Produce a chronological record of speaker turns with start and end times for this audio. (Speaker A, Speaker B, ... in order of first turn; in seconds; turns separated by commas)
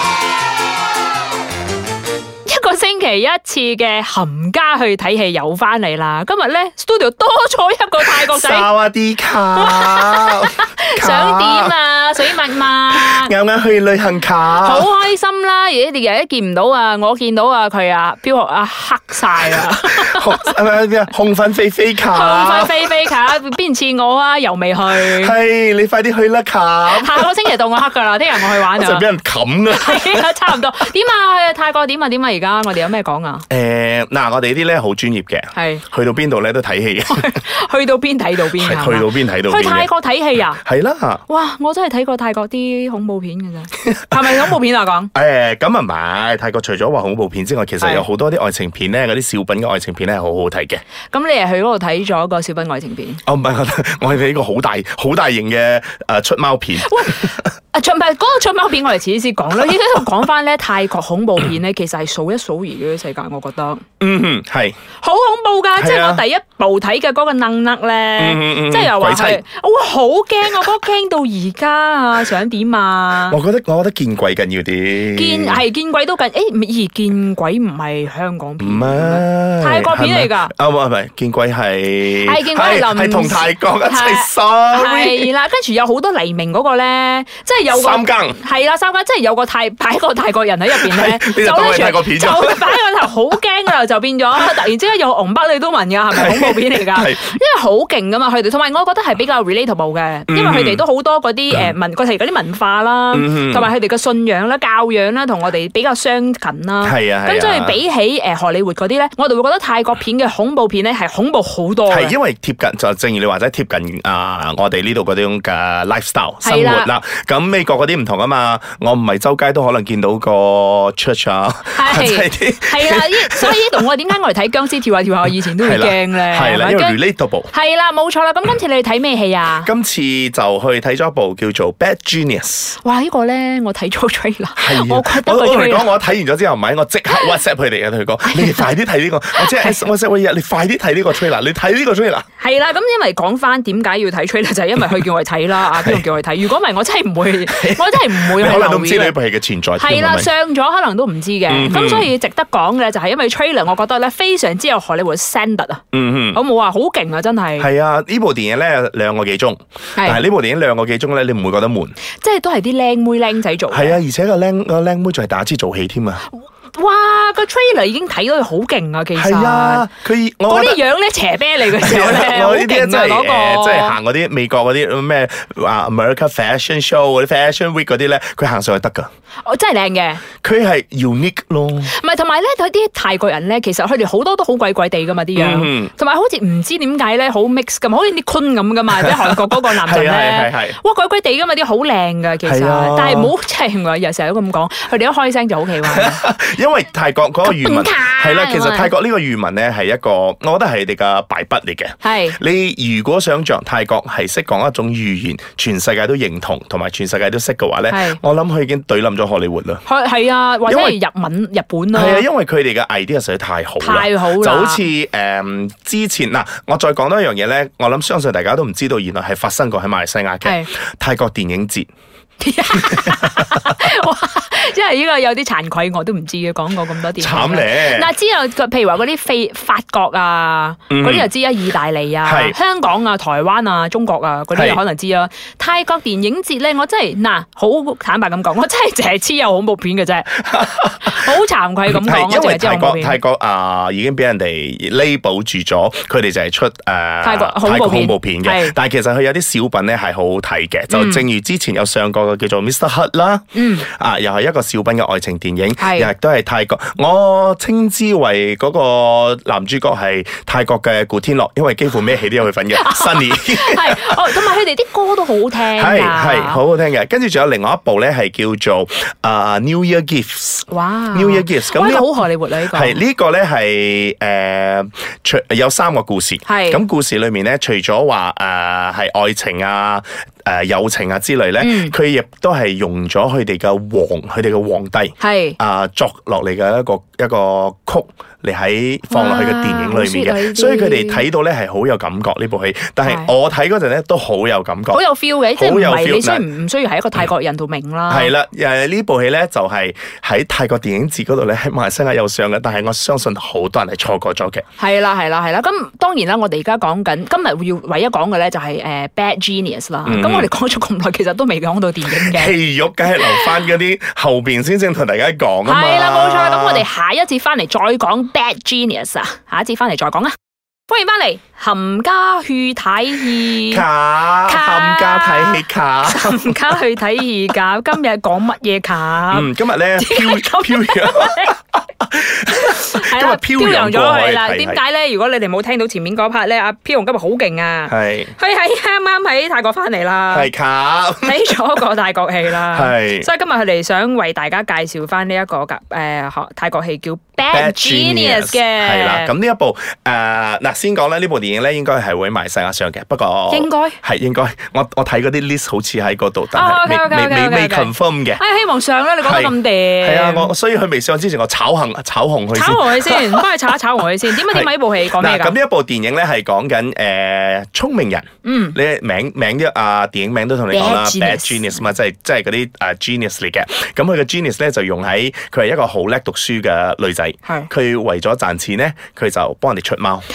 Speaker A: 2.5-8.7, Speaker B: 8.0-11.7, Speaker A: 9.5-13.3, Speaker B: 12.9-14.9, Speaker A: 14.6-20.6, Speaker B: 19.5-22.9, Speaker A: 22.0-25.4, Speaker B: 24.9-27.4, Speaker A: 26.9-29.1, Speaker B: 28.4-30.5, Speaker A: 29.7-33.5, Speaker B: 33.5-37.3, Speaker A: 35.5-35.8, Speaker A: 37.1-40.6, Speaker B: 38.5-39.9, Speaker B: 40.6-41.2, Speaker A: 41.3-45.1, Speaker B: 43.9-44.4, Speaker B: 45.1-50.8, Speaker A: 47.8-48.1, Speaker A: 51.1-53.2, Speaker B: 53.3-57.4, Speaker A: 56.8-63.9, Speaker B: 64.0-64.8, Speaker A: 65.0-73.4, Speaker B: 65.8-66.2, Speaker B: 68.2-69.4, Speaker B: 73.2-75.6, Speaker A: 75.1-80.5, Speaker B: 78.6-85.3, Speaker A: 82.2-112.1, Speaker B: 87.7-88.4, Speaker B: 90.7-92.8, Speaker B: 96.1-97.3, Speaker B: 100.3-100.8, Speaker B: 103.1-103.7, Speaker B: 106.8-107.8, Speaker B: 111.9-123.9, Speaker A: 116.4-116.9, Speaker A: 121.7-127.0, Speaker B: 125.4-127.5, Speaker A: 127.5-129.7, Speaker B: 129.6-132.8, Speaker A: 132.8-135.9, Speaker B: 134.6-142.3, Speaker A: 138.3-138.7, Speaker A: 139.3-139.8, Speaker A: 142.4-149.2, Speaker B: 145.7-146.1, Speaker B: 147.5-150.3, Speaker A: 149.8-157.7, Speaker B: 151.5-152.1, Speaker B: 155.9-156.4, Speaker B: 157.6-162.0, Speaker A: 160.0-160.2, Speaker A: 162.2-164.0, Speaker B: 163.7-166.3, Speaker A: 166.3-169.9, Speaker B: 169.2-170.8, Speaker A: 170.5-174.0, Speaker B: 171.7-179.1, Speaker A: 179.4-180.2, Speaker B: 180.4-181.9, Speaker A: 181.9-196.2, Speaker B: 185.3-185.9, Speaker B: 188.9-190.8, Speaker B: 192.4-193.3, Speaker B: 195.8-209.8, Speaker A: 197.4-198.9, Speaker A: 202.0-202.4, Speaker A: 207.9-208.2, Speaker A: 209.9-212.3, Speaker B: 210.7-211.0, Speaker B: 211.9-221.9, Speaker A: 213.8-214.8, Speaker A: 220.4-220.7, Speaker A: 222.4-240.4, Speaker B: 222.8-223.7, Speaker B: 227.2-228.1, Speaker B: 230.9-231.3, Speaker B: 232.2-232.6, Speaker B: 234.5-234.8, Speaker B: 240.4-241.3, Speaker A: 241.0-243.2, Speaker B: 241.9-264.3, Speaker A: 247.2-248.7, Speaker A: 250.9-251.2, Speaker A: 253.5-253.9, Speaker A: 255.8-256.1, Speaker A: 262.7-266.6, Speaker B: 265.8-272.2, Speaker A: 270.7-273.0, Speaker B: 272.7-296.4, Speaker A: 276.5-276.8, Speaker A: 281.6-281.9, Speaker A: 285.2-285.6, Speaker A: 289.1-291.3, Speaker A: 293.0-293.3, Speaker A: 294.9-298.3, Speaker B: 298.1-304.6, Speaker A: 304.8-312.5, Speaker B: 310.1-310.5, Speaker B: 312.1-316.9, Speaker A: 313.2-313.6, Speaker A: 315.6-320.4, Speaker A: 320.9-323.9, Speaker B: 323.7-326.6, Speaker A: 324.4-331.5, Speaker B: 329.3-334.8, Speaker A: 332.5-340.5, Speaker B: 337.9-338.3, Speaker B: 340.3-341.6, Speaker A: 341.2-349.3, Speaker B: 342.7-343.3, Speaker B: 347.5-358.4, Speaker A: 353.5-354.0, Speaker A: 356.5-360.5, Speaker B: 359.2-363.5, Speaker A: 362.5-365.6, Speaker B: 364.3-380.3, Speaker A: 368.4-368.8, Speaker A: 370.7-371.8